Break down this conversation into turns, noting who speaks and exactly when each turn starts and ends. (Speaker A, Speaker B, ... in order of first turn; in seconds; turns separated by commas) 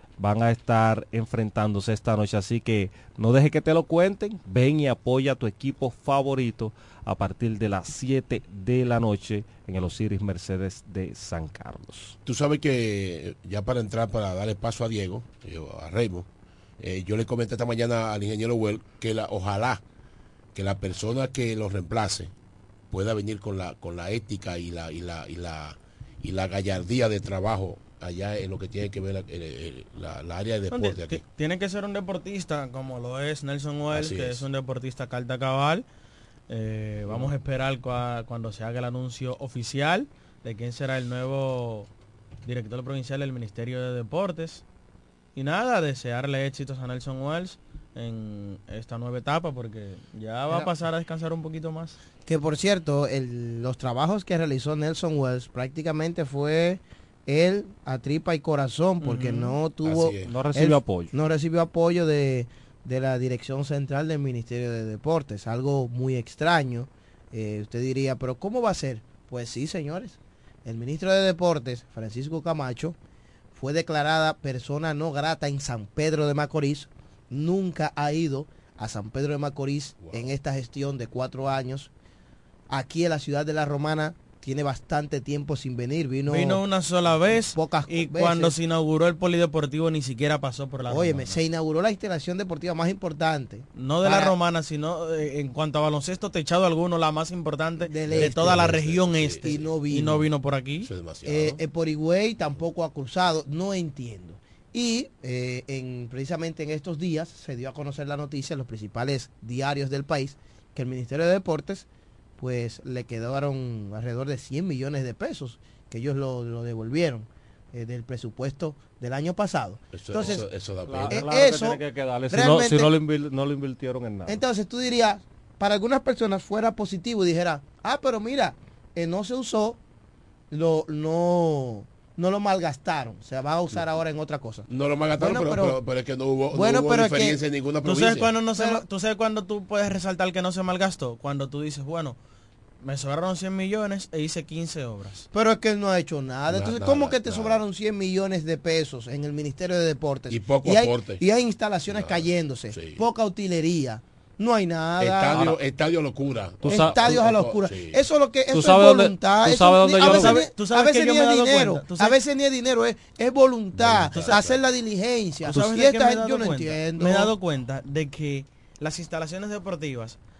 Speaker A: 0.2-12.2, Speaker B: 12.2-16.3, Speaker B: 16.8-19.8, Speaker B: 20.5-22.3, Speaker B: 22.9-31.2, Speaker C: 30.7-35.8, Speaker B: 33.9-34.4, Speaker C: 36.5-41.9, Speaker C: 42.5-44.6, Speaker C: 45.4-52.0, Speaker D: 52.2-73.0, Speaker C: 59.0-59.6, Speaker B: 59.8-60.3, Speaker A: 60.2-61.1, Speaker D: 73.5-81.9, Speaker B: 80.0-80.3, Speaker D: 82.7-86.6, Speaker C: 86.3-91.4, Speaker D: 87.5-88.5, Speaker D: 90.9-94.3, Speaker C: 93.8-100.9, Speaker D: 97.8-98.7, Speaker B: 98.0-99.7, Speaker D: 99.4-100.3, Speaker B: 100.8-101.6, Speaker D: 101.2-111.9, Speaker D: 112.4-120.5, Speaker B: 119.9-121.4, Speaker A: 120.2-124.4, Speaker D: 121.1-121.8, Speaker D: 122.3-122.9, Speaker D: 124.3-129.8, Speaker D: 130.5-134.7, Speaker B: 134.7-138.3, Speaker D: 135.2-135.8, Speaker D: 136.5-137.4, Speaker C: 137.8-142.2, Speaker D: 138.5-138.8, Speaker C: 142.8-145.3, Speaker D: 145.3-155.6, Speaker B: 146.5-147.6, Speaker B: 150.3-151.2, Speaker B: 151.9-153.0, Speaker B: 155.0-158.0, Speaker A: 156.6-157.1, Speaker D: 156.6-167.3, Speaker A: 158.5-160.4, Speaker C: 160.0-162.2, Speaker B: 163.8-164.6, Speaker C: 164.1-164.4, Speaker C: 165.4-170.2